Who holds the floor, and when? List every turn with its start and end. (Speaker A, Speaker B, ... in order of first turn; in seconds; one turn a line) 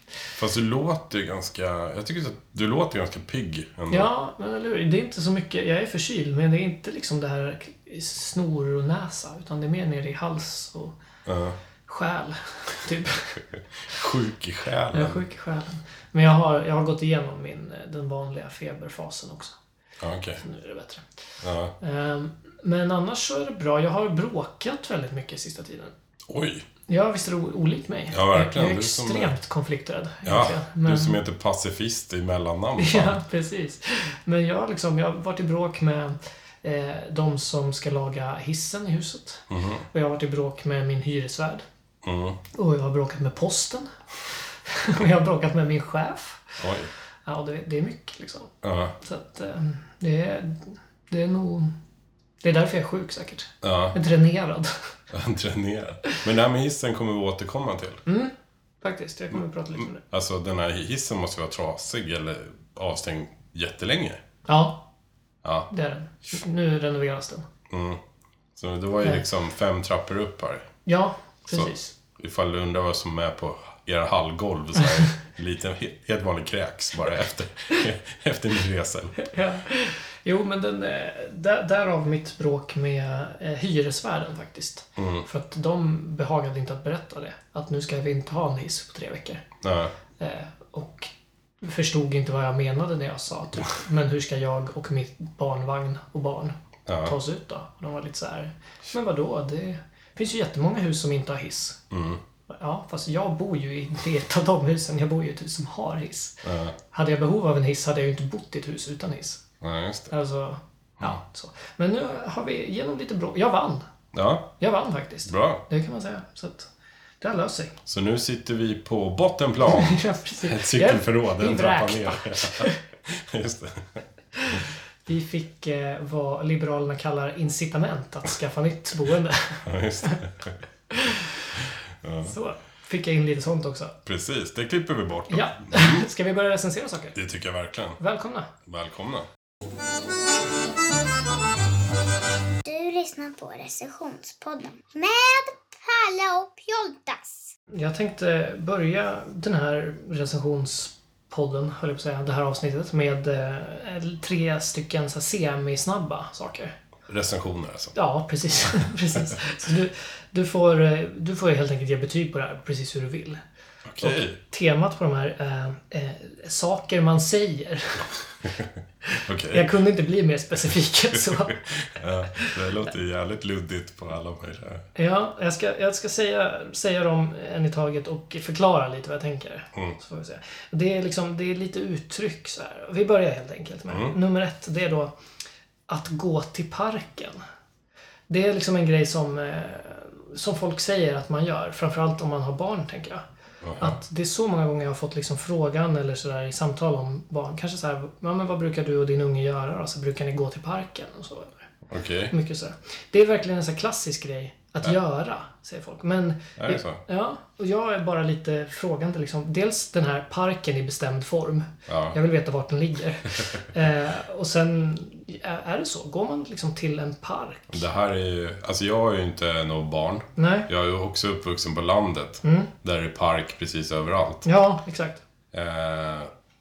Speaker A: 0.3-4.1
Speaker B: 3.9-10.9
Speaker A: 11.2-11.6
Speaker B: 11.8-13.4
Speaker A: 13.5-15.2
Speaker B: 14.9-19.6
Speaker A: 20.0-20.4
Speaker B: 20.4-21.1
Speaker A: 21.4-21.7
Speaker B: 21.8-25.9
Speaker A: 26.3-26.7
Speaker B: 26.9-31.2
Speaker A: 28.1-29.4
Speaker A: 30.2-33.2
Speaker B: 32.8-41.6
Speaker A: 39.5-39.8
Speaker A: 42.0-42.4
Speaker B: 42.5-43.9
Speaker B: 44.6-46.6
Speaker A: 46.6-46.9
Speaker B: 47.2-51.7
Speaker A: 48.6-48.9
Speaker B: 52.4-54.8
Speaker A: 53.6-54.0
Speaker A: 55.1-58.0
Speaker B: 58.0-60.0
Speaker A: 60.0-64.2
Speaker B: 64.5-64.8
Speaker A: 65.4-65.7
Speaker B: 65.7-67.5
Speaker A: 67.7-68.0
Speaker A: 68.5-70.7
Speaker B: 70.8-71.9
Speaker A: 71.5-79.3
Speaker B: 79.2-89.5
Speaker A: 85.0-85.2
Speaker A: 89.6-89.9
Speaker B: 90.2-101.8
Speaker A: 96.9-97.1
Speaker A: 101.9-102.2
Speaker B: 102.5-109.4
Speaker A: 106.4-106.8
Speaker A: 109.6-110.1
Speaker B: 110.1-113.8
Speaker A: 114.1-114.5
Speaker B: 114.6-116.7
Speaker A: 115.3-115.6
Speaker B: 117.2-117.8
Speaker A: 117.8-124.0
Speaker B: 119.6-122.8
Speaker B: 124.3-130.2
Speaker A: 129.6-130.6
Speaker B: 130.9-131.3
Speaker A: 131.6-132.3
Speaker B: 132.2-134.0
Speaker A: 134.0-136.0
Speaker B: 135.3-137.2
Speaker A: 137.1-138.0
Speaker B: 138.0-138.5
Speaker A: 138.6-139.3
Speaker C: 142.6-147.5
Speaker B: 147.7-156.7
Speaker A: 157.1-157.9
Speaker B: 157.9-163.4
Speaker A: 163.8-164.4
Speaker B: 164.0-168.1
Speaker B: 169.2-171.6
Speaker A: 169.2-169.7
Speaker A: 171.2-174.9
Speaker B: 174.9-185.1
Speaker A: 183.9-184.2
Speaker B: 185.9-187.4
Speaker B: 188.3-193.2
Speaker A: 193.6-194.0
Speaker B: 193.8-201.7
Speaker A: 201.9-202.3
Speaker B: 202.3-217.8
Speaker A: 206.6-207.0
Speaker A: 211.9-212.2
Speaker A: 217.7-224.4
Speaker B: 220.4-220.7
Speaker B: 222.4-222.7
Speaker B: 224.4-225.2
Speaker A: 225.5-226.3